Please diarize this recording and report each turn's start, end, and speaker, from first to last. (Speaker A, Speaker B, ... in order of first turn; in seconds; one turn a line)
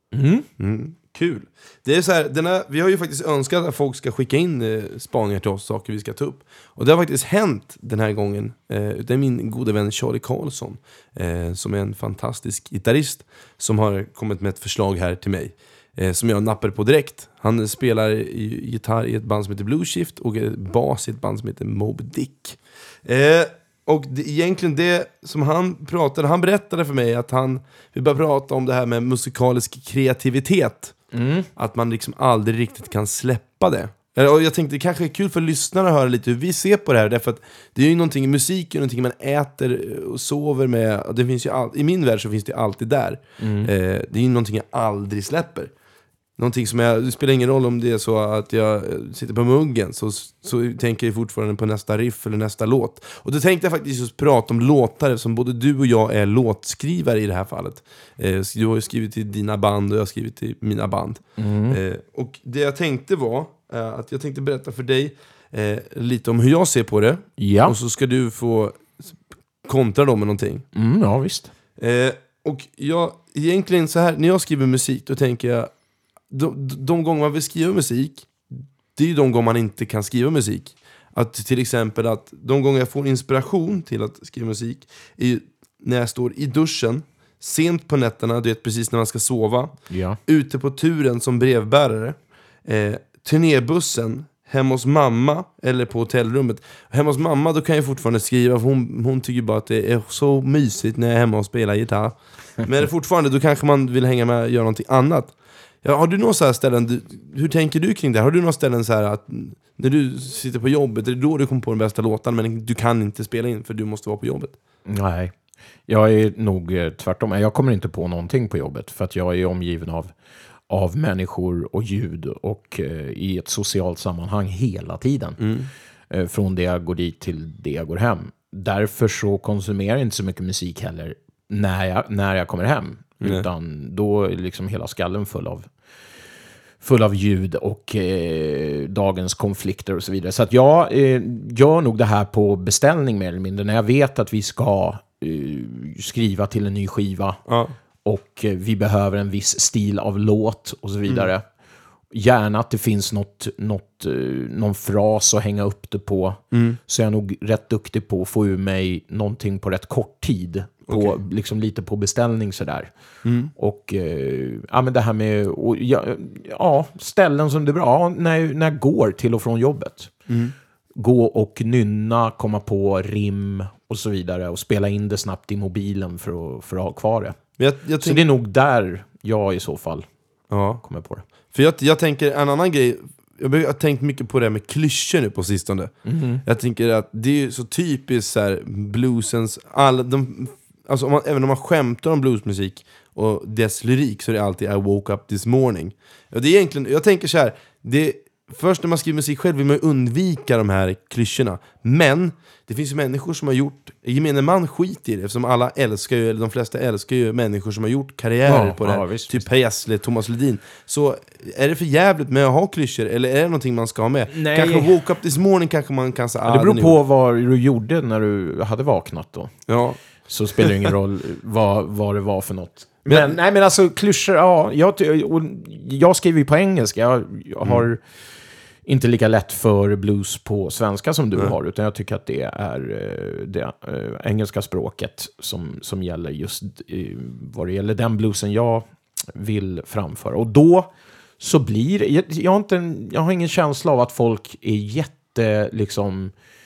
Speaker A: 0.1-0.5
Speaker B: 0.6-31.0
Speaker A: 31.1-31.5
Speaker B: 31.6-45.7
Speaker A: 43.4-43.7
Speaker B: 46.4-69.1
Speaker A: 61.4-61.8
Speaker A: 67.4-67.8
Speaker B: 69.7-70.7
Speaker A: 70.7-71.5
Speaker B: 71.8-75.7
Speaker B: 76.3-114.5
Speaker A: 89.9-90.2
Speaker A: 114.9-115.3
Speaker A: 115.9-120.1
Speaker A: 120.7-125.4
Speaker B: 125.4-125.7
Speaker A: 126.1-135.7
Speaker B: 133.2-133.5
Speaker A: 136.8-147.4
Speaker B: 147.5-147.7
Speaker A: 148.0-151.4
Speaker A: 152.1-162.9
Speaker B: 156.5-156.8
Speaker B: 160.9-161.2
Speaker B: 163.2-163.5
Speaker A: 163.5-170.1
Speaker B: 170.3-170.6
Speaker A: 170.9-177.4
Speaker B: 177.6-178.2
Speaker A: 178.0-180.1
Speaker B: 180.5-180.8
Speaker A: 180.7-181.2
Speaker B: 181.4-216.9
Speaker A: 186.1-186.4
Speaker A: 208.5-209.4
Speaker A: 214.3-214.9
Speaker A: 216.4-219.6
Speaker B: 219.7-220.0
Speaker A: 220.3-228.0
Speaker B: 220.6-220.9
Speaker B: 223.1-223.4
Speaker A: 228.9-246.3